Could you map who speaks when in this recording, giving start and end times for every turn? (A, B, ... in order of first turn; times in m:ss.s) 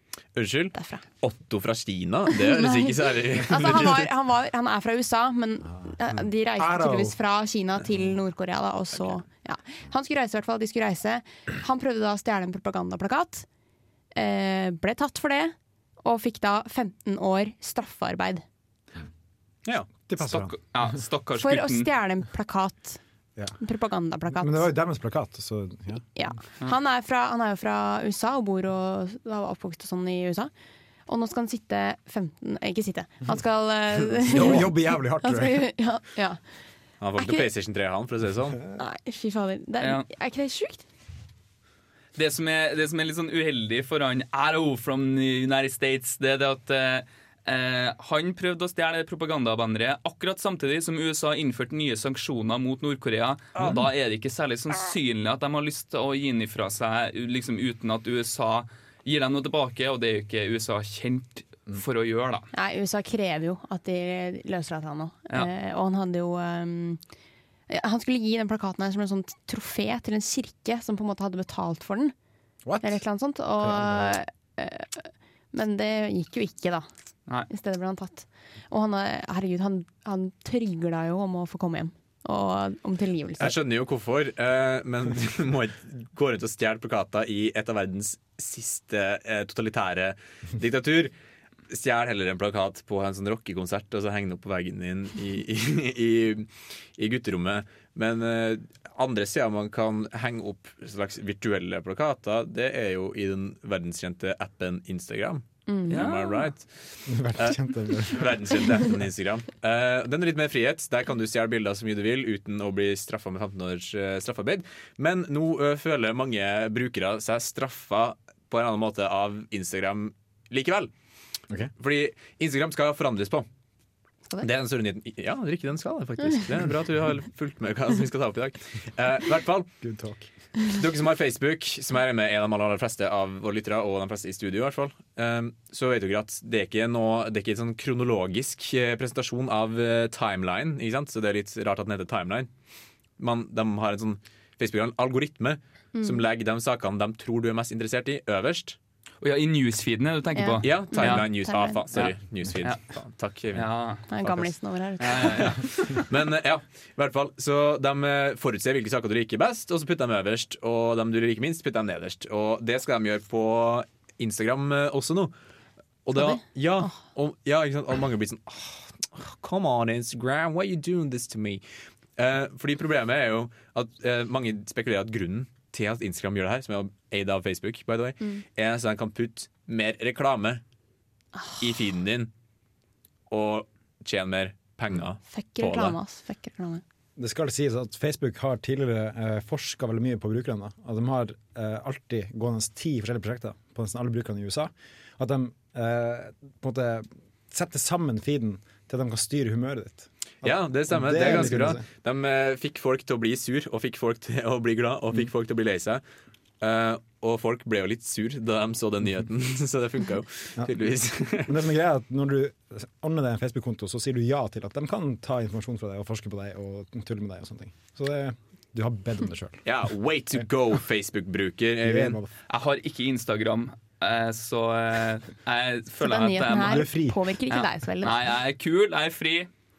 0:00.4-0:04.1 A
0:00.7-0:01.0 B
0:02.6-0:13.5 B
0:06.6-0:07.2 C
0:14.2-0:18.4 B
0:20.1-0:20.8 C
0:20.2-0:21.9 D
0:21.4-0:23.0 B
0:23.6-0:24.7 B
0:24.4-0:26.2 C
0:26.1-0:30.5 B
0:31.1-0:36.5 B
0:34.3-0:35.7 C
0:37.0-0:38.6 A
0:37.2-0:37.5 B
0:38.8-0:40.8 B
0:42.2-1:02.5 D
1:02.5-1:07.0 B
1:07.7-1:12.1 B
1:12.6-1:13.0 C
1:12.8-1:16.9 B
1:13.6-1:14.2 C
1:17.5-1:23.5 B
1:23.4-1:31.1 A
1:31.7-2:00.9 A
1:45.7-1:46.1 B
1:45.9-1:46.4 D
1:47.1-1:48.6 C
2:01.8-2:03.5 A
2:04.4-2:09.7 A
2:09.8-2:10.3 C
2:10.7-2:22.5 A
2:23.2-2:28.8 A
2:25.9-2:26.2 B
2:29.2-2:31.3 D
2:30.4-2:31.8 B
2:30.6-2:34.5 A
2:31.9-2:32.8 D
2:33.5-2:34.0 D
2:34.1-2:35.4 B
2:35.0-2:36.0 D
2:35.2-2:45.3 A
2:46.0-2:51.6 A
2:46.2-2:47.0 B
2:52.2-3:00.6 A
3:01.6-3:02.3 A
3:03.3-3:06.0 A
3:05.3-3:06.8 B
3:07.2-3:21.8 C
3:20.4-3:26.0 A
3:26.6-3:31.5 A
3:31.3-3:39.8 C
3:39.6-3:42.2 A
3:41.8-3:42.3 C
3:42.5-3:46.9 D
3:46.0-3:48.2 B
3:46.6-3:47.2 C
3:47.5-3:49.5 D